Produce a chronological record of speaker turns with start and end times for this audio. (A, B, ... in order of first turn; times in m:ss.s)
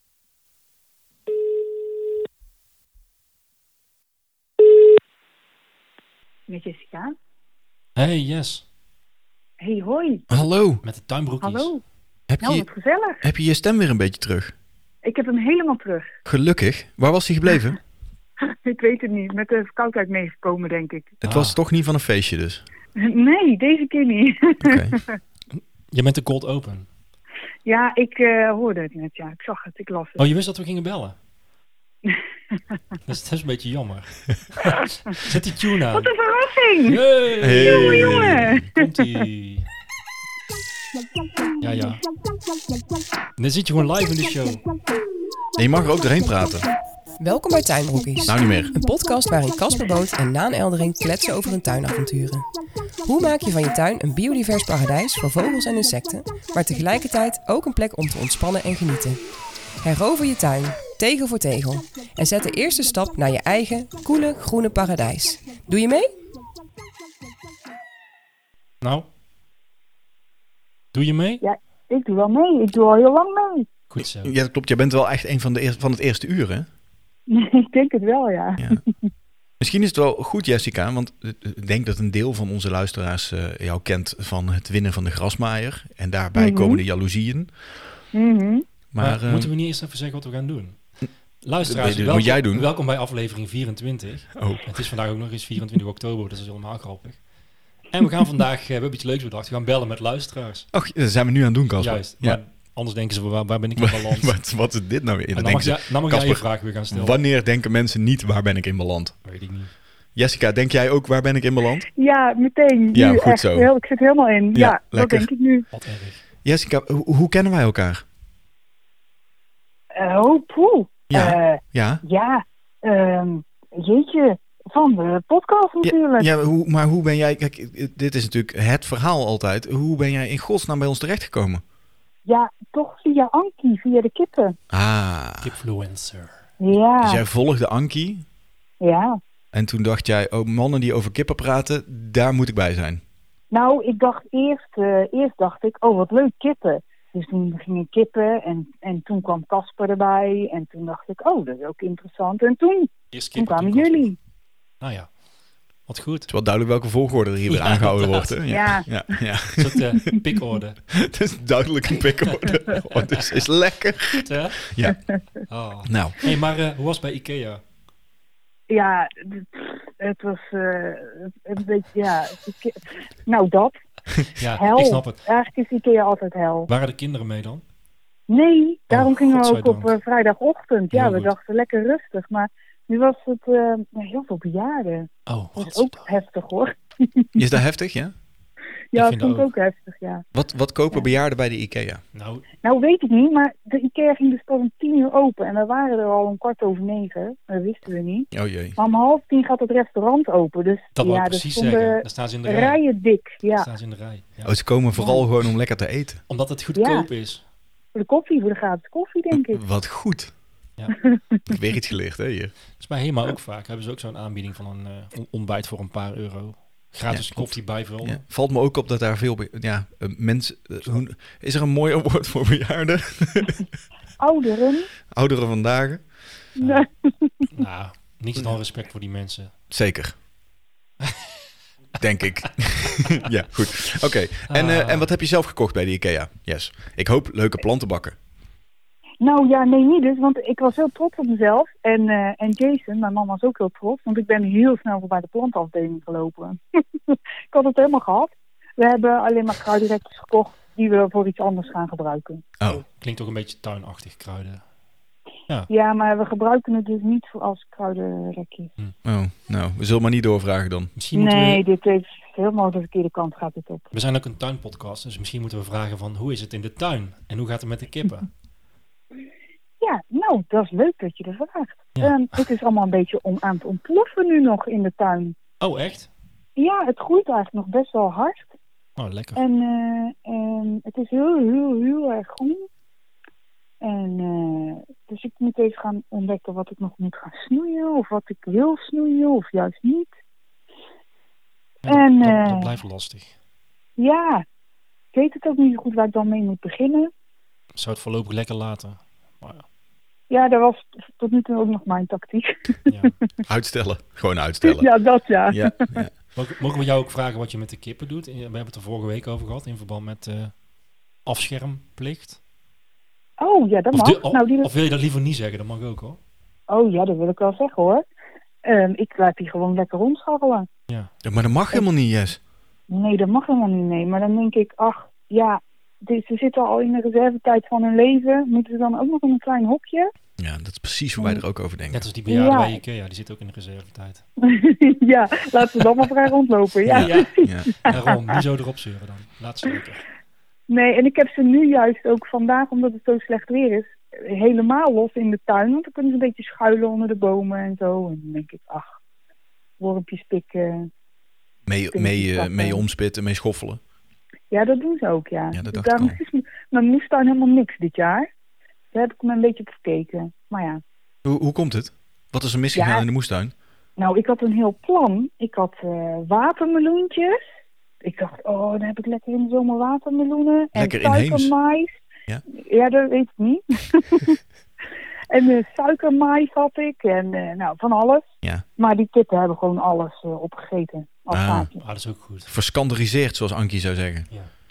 0:06.5-0:07.1 A
0:08.0-0:08.6 B
0:09.6-0:10.2 A
0:10.3-0:10.8 C
0:10.8-0:11.7 B
0:11.4-0:11.8 A
0:12.3-0:12.7 C
0:12.4-0:13.2 A
0:13.2-0:14.5 C
0:15.0-0:16.1 A
0:16.2-0:17.8 C
0:18.5-0:21.2 A
0:21.2-0:22.6 C
0:21.2-0:21.6 B
0:23.0-0:25.0 A
0:24.6-0:25.0 C
0:25.5-0:26.9 B
0:27.7-0:30.2 A
0:30.2-0:31.2 B
0:33.1-0:36.1 B
0:36.0-0:37.0 A
0:36.9-0:39.7 B
0:37.4-0:38.6 C
0:37.6-0:38.8 A
0:41.6-0:42.0 B
0:43.4-0:44.6 B
0:45.6-0:46.7 C
0:47.2-0:52.5 D
0:48.3-0:48.8 C
0:53.0-0:59.2 D
0:59.8-1:06.1 D
1:08.8-1:09.1 B
1:10.9-1:11.4 B
1:11.4-1:13.7 A
1:13.9-1:14.4 B
1:14.2-1:16.7 C
1:17.3-1:18.8 A
1:19.6-1:27.5 C
1:26.4-1:26.8 A
1:28.1-1:28.7 A
1:28.9-1:29.5 C
1:29.0-1:37.3 B
1:31.6-1:32.7 C
1:34.4-1:34.8 C
1:37.9-1:40.7 B
1:40.7-1:42.4 C
1:41.8-1:44.4 B
1:43.8-1:49.2 C
1:45.3-1:47.2 B
1:49.2-1:49.7 B
1:50.2-1:51.9 C
1:52.0-1:55.7 A
1:52.9-1:53.7 C
1:54.5-1:55.3 C
1:55.7-1:56.2 B
1:56.4-1:58.0 C
2:00.0-2:06.3 A
2:01.1-2:02.0 C
2:05.8-2:11.6 C
2:12.2-2:14.6 A
2:14.7-2:15.5 C
2:15.4-2:16.4 B
2:16.6-2:17.2 A
2:17.0-2:18.2 C
2:18.8-2:19.2 A
2:19.5-2:23.0 C
2:23.5-2:34.2 A
2:33.1-2:34.1 B
2:34.8-2:35.2 B
2:35.8-2:36.3 B
2:36.3-2:39.8 C
2:37.5-2:38.4 B
2:38.5-2:38.9 A
2:39.6-2:40.8 B
2:41.0-2:45.0 C
2:44.2-2:44.7 B
2:45.5-2:47.6 B
2:45.9-2:46.2 C
2:48.7-2:53.8 A
2:54.4-2:55.2 B
2:54.5-2:56.7 A
2:56.7-2:57.6 B
2:58.3-3:07.3 A
2:58.9-3:00.0 B
3:00.9-3:01.3 B
3:05.3-3:06.1 B
3:07.4-3:08.1 C
3:08.9-3:10.3 A
3:09.0-3:09.5 B
3:10.3-3:12.0 C
3:12.1-3:12.5 B
3:12.6-3:23.7 A
3:18.3-3:18.8 C
3:21.0-3:22.8 B
3:23.6-3:24.6 B
3:24.4-3:26.2 C
3:25.0-3:25.2 A
3:26.3-3:27.4 B
3:26.8-3:27.1 A
3:27.9-3:29.6 A
3:29.3-3:30.3 C
3:31.5-3:32.6 C
3:32.8-3:38.2 B
3:37.1-3:43.6 C
3:44.2-3:44.9 A
3:45.1-3:46.1 C
3:46.6-3:47.3 A
3:47.5-3:49.5 B
3:49.7-3:50.2 C
3:52.0-3:58.2 C
3:54.5-3:55.1 B
3:59.2-4:12.8 A
4:13.0-4:14.6 B
4:15.7-4:18.7 A
4:19.0-4:20.9 C
4:21.0-4:21.6 B
4:21.1-4:23.9 A
4:23.9-4:28.3 B
4:29.8-4:35.4 A
4:32.0-4:32.4 B
4:35.6-4:36.1 B
4:36.6-4:38.5 A
4:39.0-4:39.4 B
4:39.4-4:42.7 A
4:43.8-4:50.1 A
4:51.8-4:53.3 B
4:51.9-4:52.7 A
4:54.0-4:54.4 A
4:55.1-4:57.1 A
4:57.8-4:59.7 B
5:00.3-5:02.8 A
5:02.9-5:03.1 B
5:03.5-5:06.1 C
5:04.6-5:05.7 A
5:06.3-5:10.6 B
5:11.2-5:12.4 B
5:13.4-5:14.7 A
5:13.9-5:16.2 B
5:16.7-5:18.0 A
5:18.6-5:20.7 A
5:21.2-5:22.4 C
5:22.9-5:30.1 A
5:30.4-5:32.0 C
5:31.9-5:34.2 B
5:32.3-5:32.8 A
5:34.5-5:38.0 A
5:36.9-5:37.9 C
5:36.9-5:40.0 B
5:40.7-5:48.9 A
5:49.8-5:50.9 A
5:51.7-5:53.8 C
5:51.9-5:52.8 A
5:54.5-5:58.3 A
5:55.5-5:56.2 C
5:58.9-6:00.8 A
6:01.2-6:03.5 C
6:02.8-6:03.0 A
6:04.0-6:07.4 A
6:08.0-6:11.9 A
6:10.8-6:11.5 C
6:12.6-6:14.4 A
6:15.3-6:21.8 A
6:21.3-6:21.7 C
6:21.8-6:22.5 B
6:22.5-6:24.3 C